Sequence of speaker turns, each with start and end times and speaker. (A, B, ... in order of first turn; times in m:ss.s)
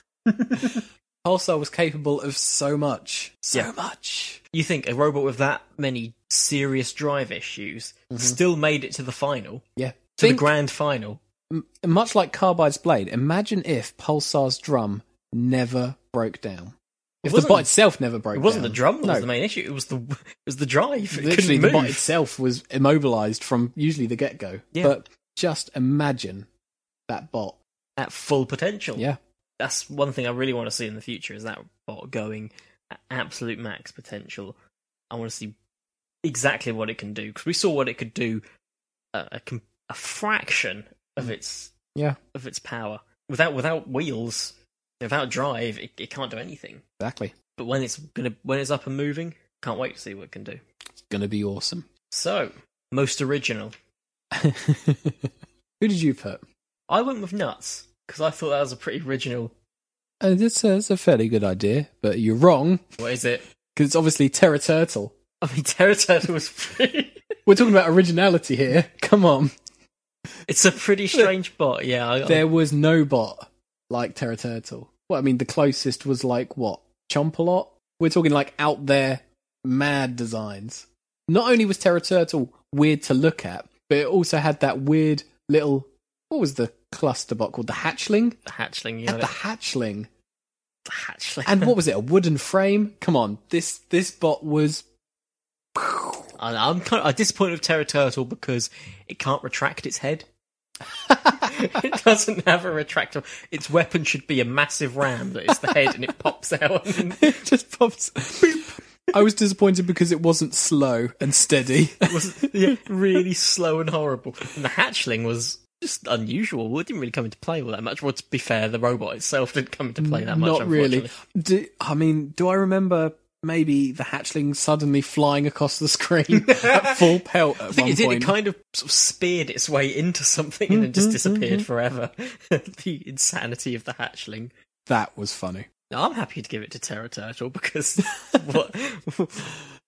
0:00.5-0:04.4 A
0:04.5-0:09.6 B
0:08.1-0:08.4 A
0:09.8-0:10.5 A
0:10.2-0:11.2 B
0:11.5-0:19.3 A
0:17.2-0:17.7 B
0:18.3-0:22.1 B
0:21.1-0:26.5 A
0:27.1-0:27.6 A
0:28.0-0:29.0 B
0:29.6-0:34.6 B
0:35.1-0:35.6 B
0:36.2-0:38.4 B
0:39.1-0:41.7 B
0:42.3-0:46.8 B
0:47.0-0:47.4 A
0:47.5-0:50.6 B
0:51.1-0:51.8 A
0:52.1-0:53.7 B
0:54.3-0:56.4 A
0:56.9-0:59.5 B
1:00.2-1:02.8 A
1:03.0-1:03.4 B
1:03.7-1:05.1 A
1:05.4-1:07.2 B
1:07.5-1:09.5 A
1:10.4-1:12.4 B
1:12.2-1:28.4 A
1:28.4-1:29.3 B
1:29.1-1:30.1 A
1:30.8-1:31.7 B
1:31.4-1:34.8 A
1:35.8-1:36.3 A
1:36.4-1:40.3 B
1:41.1-1:41.5 A
1:41.3-1:47.4 B
1:45.5-1:45.9 A
1:47.2-1:52.7 A
1:52.0-2:01.1 B
2:00.0-2:08.3 A
2:06.3-2:14.5 B
2:10.7-2:11.6 A
2:14.9-2:15.7 A
2:15.9-2:19.6 B